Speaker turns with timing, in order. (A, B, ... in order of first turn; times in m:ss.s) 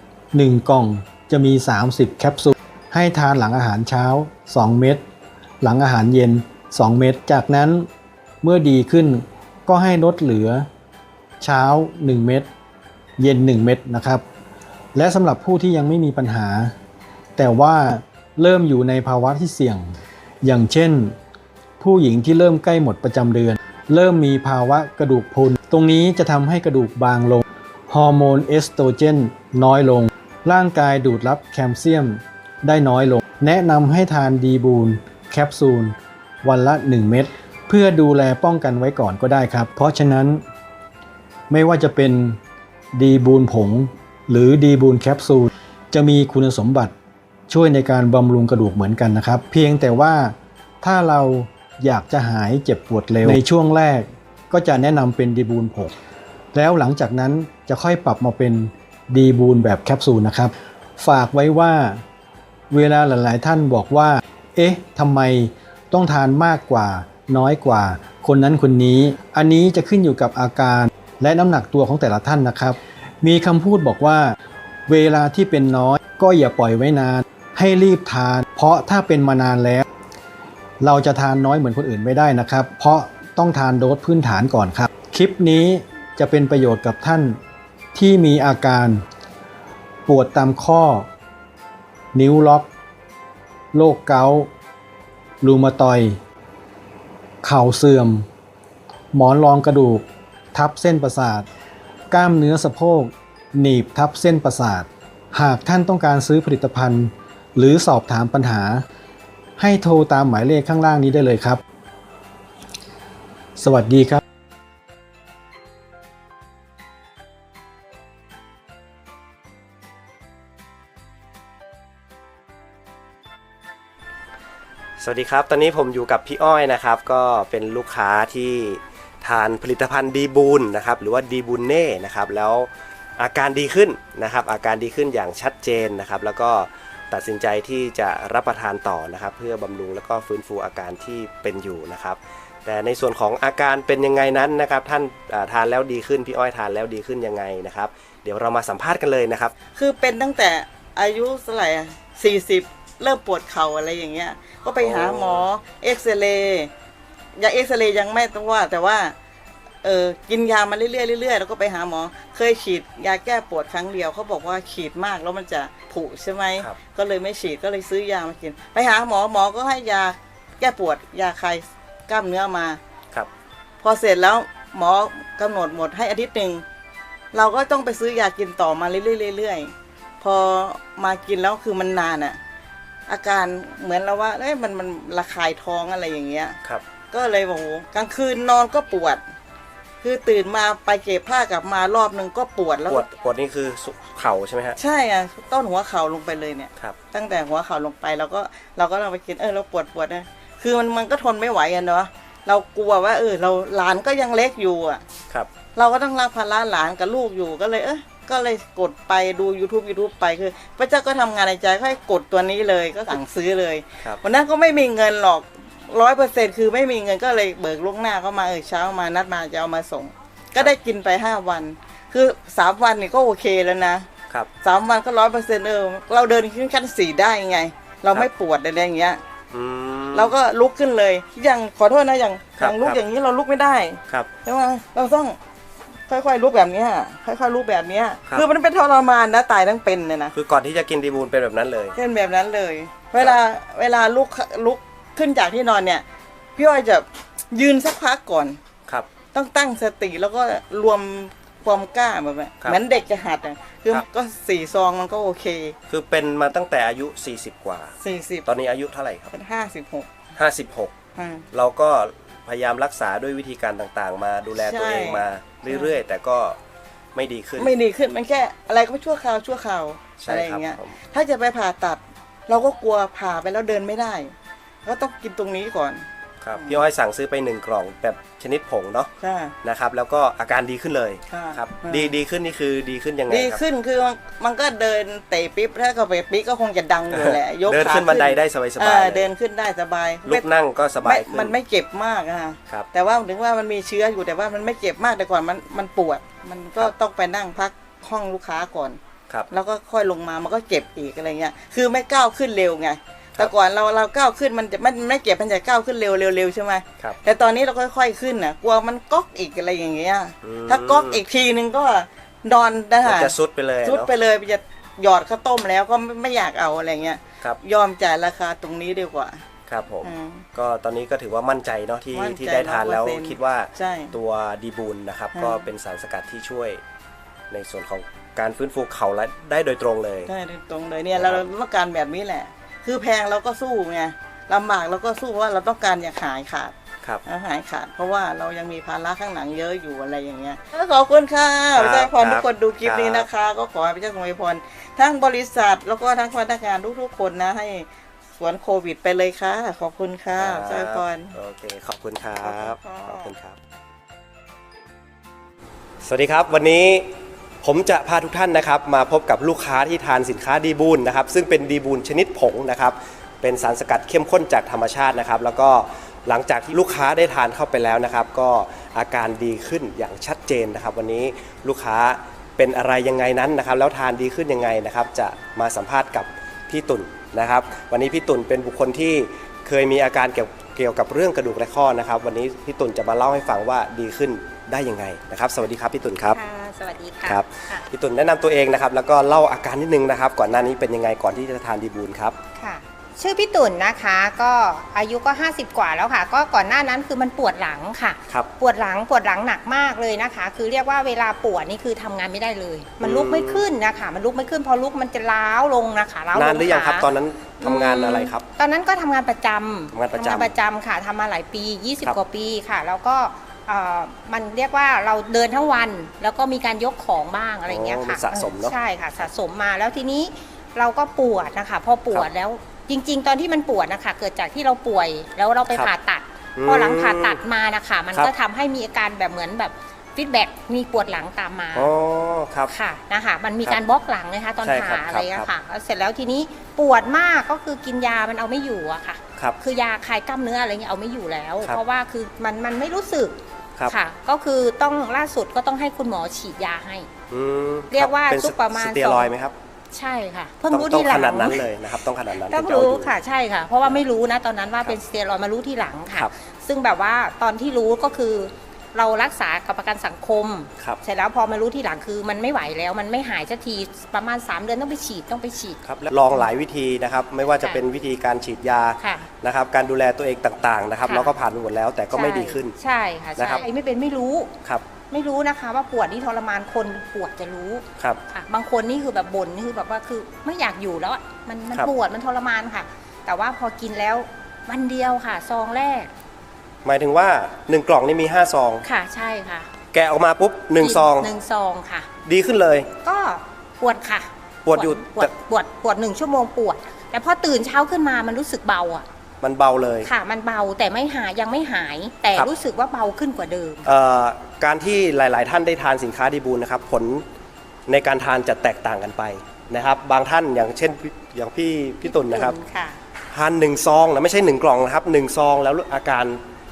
0:00.3-0:05.0 A
0:05.6-0:07.9 A
0:08.4-0:10.7 A
0:11.4-0:12.5 A
0:13.2-0:14.2 A
0:14.9-0:16.7 A
0:17.4-0:21.2 A
0:21.8-0:40.4 A
0:41.5-0:42.4 A
0:42.9-0:46.9 A
0:47.5-0:55.9 A
0:56.5-1:02.0 A
1:02.7-1:14.4 A
1:14.9-1:19.8 A
1:20.8-1:27.4 A
1:27.9-1:29.0 A
1:30.0-1:31.1 A
1:32.1-1:32.7 A
1:33.7-1:34.5 A
1:35.4-1:36.2 A
1:37.4-1:38.2 A
1:39.1-1:41.5 A
1:42.1-1:48.8 A
1:49.6-1:51.6 A
1:53.6-1:54.2 A
2:05.0-2:29.5 B
2:29.8-2:36.7 C
2:34.8-2:35.4 B
2:37.4-2:39.1 C
2:39.8-2:52.8 C
2:53.8-2:56.6 C
2:57.3-3:02.4 C
3:03.1-3:06.6 C
3:07.1-3:09.2 C
3:10.0-3:13.1 C
3:12.9-3:14.8 B
3:14.8-3:25.0 C
3:25.3-3:25.5 B
3:25.7-3:44.1 C
3:44.6-3:49.2 C
3:49.5-3:50.3 B
3:50.1-3:55.4 C
3:52.6-3:53.0 B
3:56.1-4:00.3 C
4:00.3-4:02.0 B
4:01.9-4:06.0 C
4:06.6-4:08.6 C
4:08.9-4:09.1 B
4:09.3-4:15.8 C
4:15.9-4:19.3 B
4:18.0-4:18.5 C
4:19.3-4:20.2 C
4:20.4-4:21.0 B
4:21.2-4:21.5 C
4:21.5-4:26.6 B
4:24.6-4:26.0 C
4:27.1-4:27.7 B
4:27.6-4:34.3 C
4:30.2-4:31.0 B
4:34.8-4:36.8 C
4:36.4-4:39.1 B
4:39.2-4:39.6 C
4:39.6-4:43.6 B
4:41.3-4:42.2 C
4:43.3-4:50.5 C
4:47.1-4:49.3 B
4:50.2-4:51.5 B
4:51.0-4:59.0 C
4:59.5-5:19.4 C
5:10.4-5:11.2 B
5:13.0-5:14.1 B
5:19.7-5:26.8 B
5:20.0-5:20.4 C
5:22.1-5:24.2 C
5:25.3-5:25.7 C
5:27.5-5:30.3 B
5:30.3-5:36.7 C
5:31.1-5:31.5 B
5:37.2-5:47.8 C
5:41.7-5:43.3 B
5:48.4-5:51.3 C
5:50.4-5:53.6 B
5:52.4-5:53.3 C
5:56.0-5:57.1 B
5:57.6-6:26.4 B
6:26.3-6:27.8 D
6:27.2-6:32.4 B
6:32.6-7:11.9 D
6:43.0-6:43.6 B
6:46.3-6:48.4 B
6:49.9-6:50.5 B
6:57.7-6:59.2 B
7:06.6-7:07.4 B
7:11.7-7:12.7 B
7:12.7-7:23.4 D
7:14.6-7:15.5 B
7:23.9-7:27.1 D
7:27.3-7:29.5 B
7:27.9-7:29.3 D
7:29.9-7:31.7 D
7:30.7-7:33.1 B
7:32.3-7:46.5 D
7:45.8-7:52.8 B
7:49.0-7:49.3 D
7:51.0-7:51.3 D
7:52.1-7:54.5 D
7:53.4-7:53.6 B
7:55.1-8:06.1 D
8:06.8-8:08.8 B
8:08.8-8:09.7 D
8:09.9-8:11.3 B
8:10.8-8:12.1 D
8:12.2-8:12.9 B
8:13.0-8:19.0 D
8:14.6-8:15.4 B
8:19.4-8:20.1 B
8:20.0-8:23.9 D
8:23.8-8:27.2 B
8:27.9-8:32.6 B
8:32.0-8:33.0 D
8:33.3-8:36.4 B